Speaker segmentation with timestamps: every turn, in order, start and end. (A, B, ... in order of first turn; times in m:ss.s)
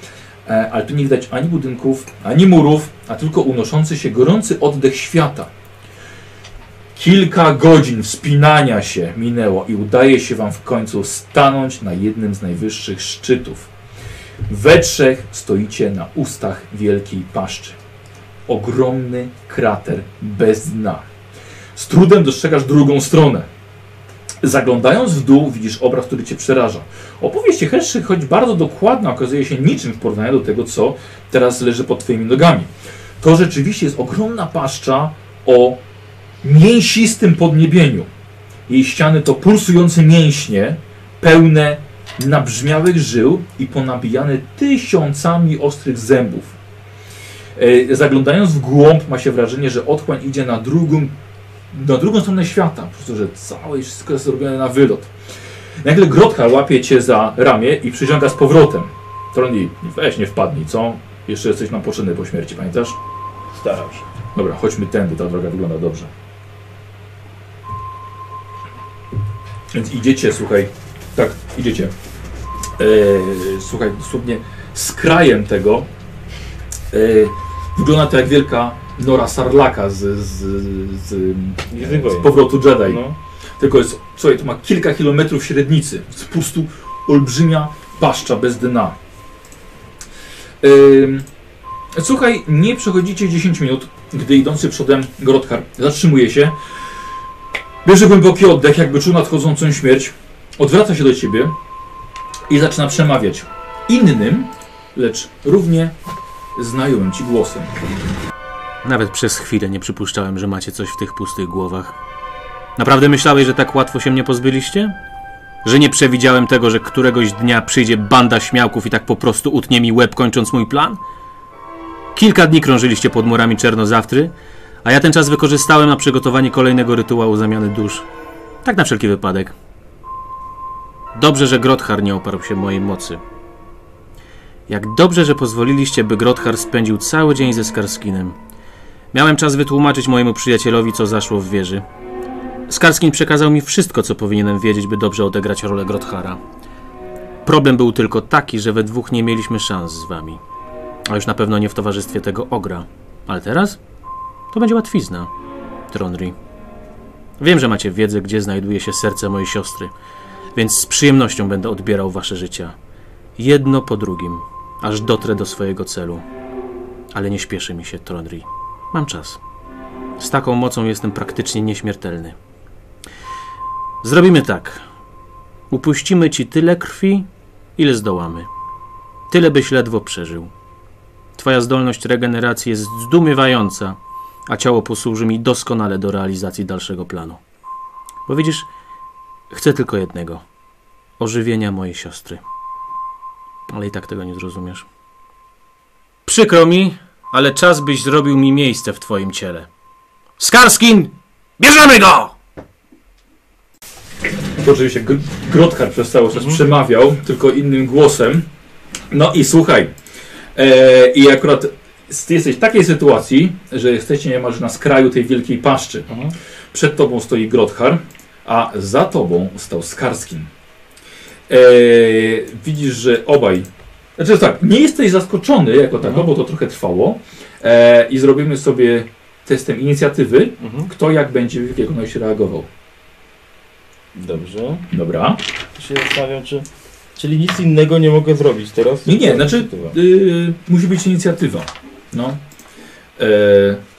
0:00.5-0:05.5 A
0:07.0-0:13.7 A
0:14.5-0:17.8 A
0:18.5-0:21.0 A
0:21.8-0:23.5 A
0:24.4-0:32.7 A
0:33.2-0:35.8 A
0:36.4-0:38.1 A
0:38.7-0:46.6 A
0:47.6-0:51.1 A
0:51.7-0:55.1 A
0:55.8-1:03.0 A
1:03.5-1:04.1 B
1:04.3-1:06.1 A
1:09.7-1:11.9 A
1:12.8-1:15.9 A
1:16.9-1:23.0 A
1:21.7-1:23.2 B
1:23.6-1:29.0 A
1:30.6-1:31.3 A
1:32.0-1:36.6 A
1:37.8-1:41.6 A
1:42.5-1:45.9 A
1:46.6-1:47.8 A
1:48.8-1:52.0 C
1:52.8-1:55.0 C
1:55.6-2:01.0 C
2:02.1-2:04.3 C
2:04.8-2:08.1 C
2:08.6-2:09.5 C
2:11.2-2:13.2 C
2:14.7-2:18.4 C
2:19.1-2:21.8 C
2:22.7-2:26.4 C
2:27.4-2:30.4 C
2:31.1-2:33.8 C
2:34.5-2:35.3 C
2:35.9-2:36.4 C
2:37.4-2:39.9 C
2:40.6-2:42.8 C
2:43.4-2:46.2 C
2:47.1-2:49.4 C
2:50.2-2:52.4 C
2:54.0-2:54.8 C
2:55.7-2:58.5 C
2:59.3-3:00.5 C
3:01.4-3:07.4 C
3:08.3-3:08.7 C
3:09.5-3:10.4 C
3:11.2-3:12.4 C
3:13.7-3:14.9 C
3:16.3-3:19.7 C
3:20.4-3:22.4 C
3:24.6-3:28.4 A
3:29.1-3:29.9 A
3:30.6-3:36.1 A
3:36.1-3:36.3 B
3:36.7-3:40.5 A
3:41.5-3:52.7 A
3:46.0-3:46.3 B
3:50.6-3:50.9 B
3:54.1-3:54.9 B
3:54.9-3:55.4 A
3:55.8-4:00.0 B
3:59.0-4:02.4 A
4:03.2-4:03.8 A